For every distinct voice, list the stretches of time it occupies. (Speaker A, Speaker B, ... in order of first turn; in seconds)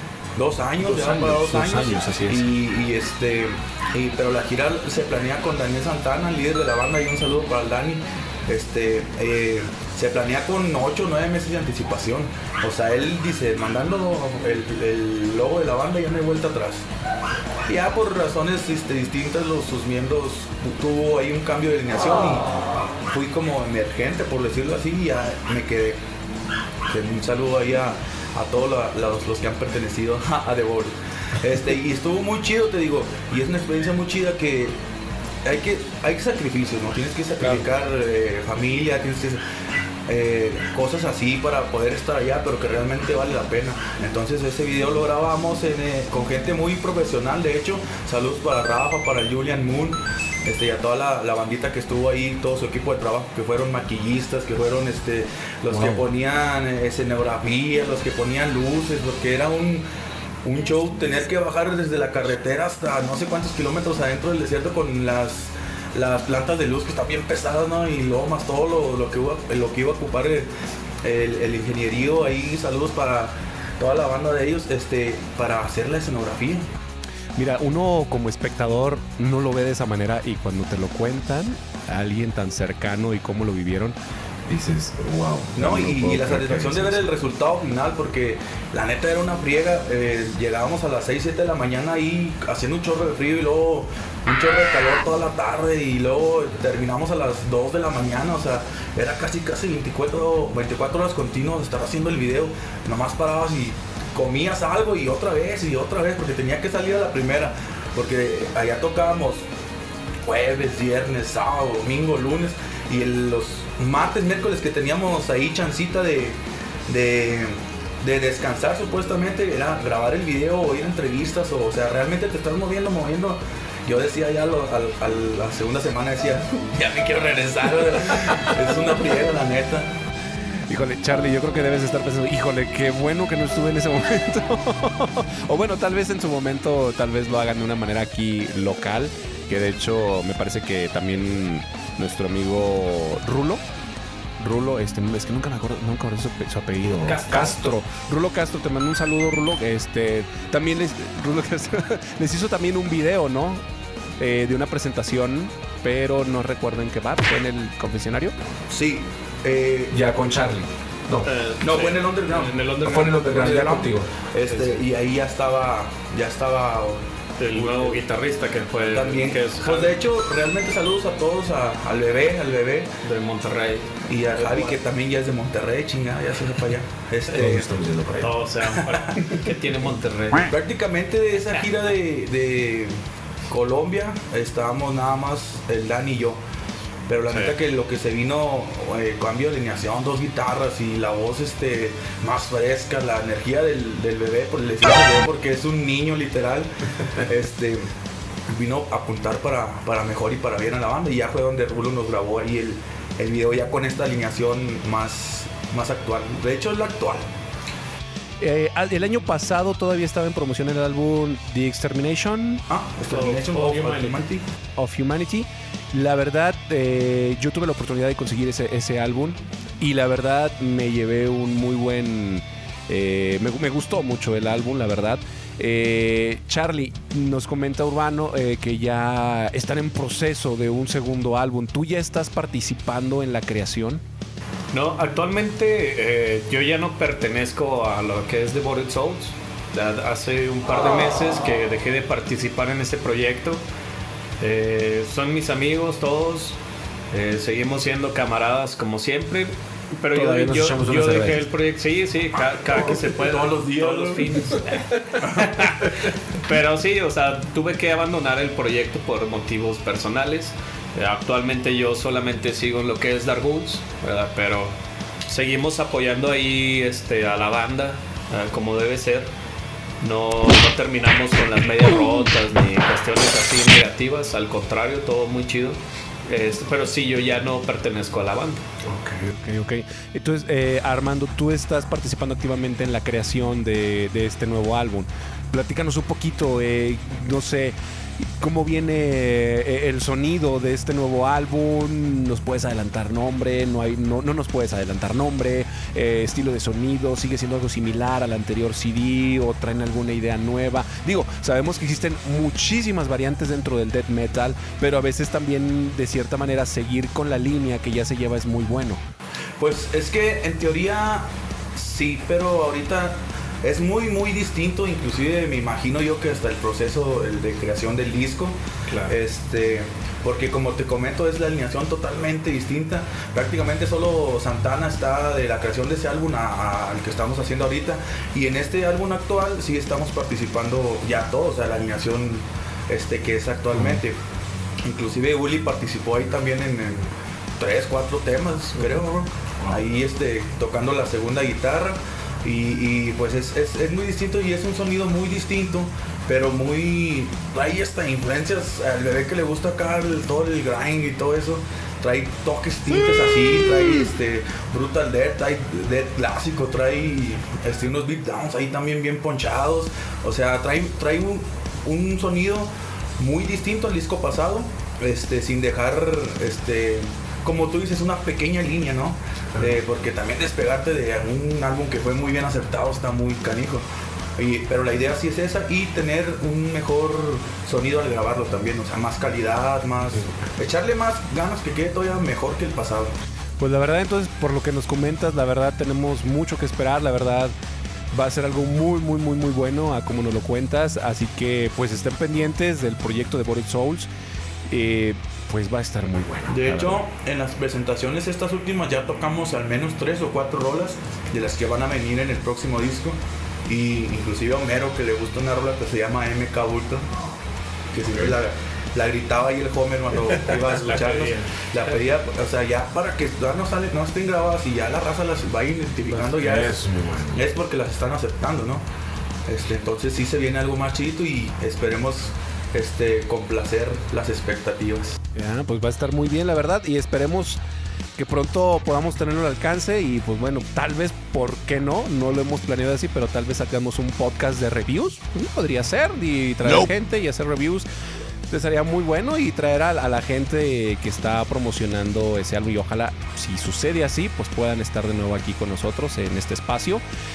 Speaker A: 0.3-16.9, 17.7-26.0, 26.9-34.8, 35.4-39.4, 40.1-59.8, 60.4-70.5, 71.0-76.6, 85.5-109.4, 110.2-129.9, 158.7-159.9, 161.6-167.0, 167.6-167.9, 168.8-172.9, 174.1-177.7, 178.7-179.2, 180.5-182.9, 183.5-186.4, 187.1-197.9, 198.5-207.3, 212.7-214.4, 252.6-254.3, 255.2-255.7, 309.6-334.2, 334.8-373.8, 374.4-383.1, 396.5-407.2, 407.9-418.8, 419.5-425.2
Speaker B: 0.8-2.5, 55.7-56.0, 77.3-84.0, 84.5-87.0, 130.7-143.6, 144.4-153.6, 154.2-158.3, 159.9-161.3, 162.8-164.1, 177.3-178.3, 208.4-214.1, 214.8-234.0, 250.1-251.4, 278.8-309.0, 383.6-387.5, 388.1-394.1, 394.7-397.0, 416.1-417.5, 425.3-427.6, 428.2-437.8, 438.5-447.0
Speaker C: 147.0-147.6, 161.2-163.6, 167.4-169.9, 173.0-174.7, 178.2-180.5, 234.7-243.6, 244.4-246.6, 247.1-264.7, 265.3-269.3, 270.0-278.6, 318.9-319.1, 410.6-411.7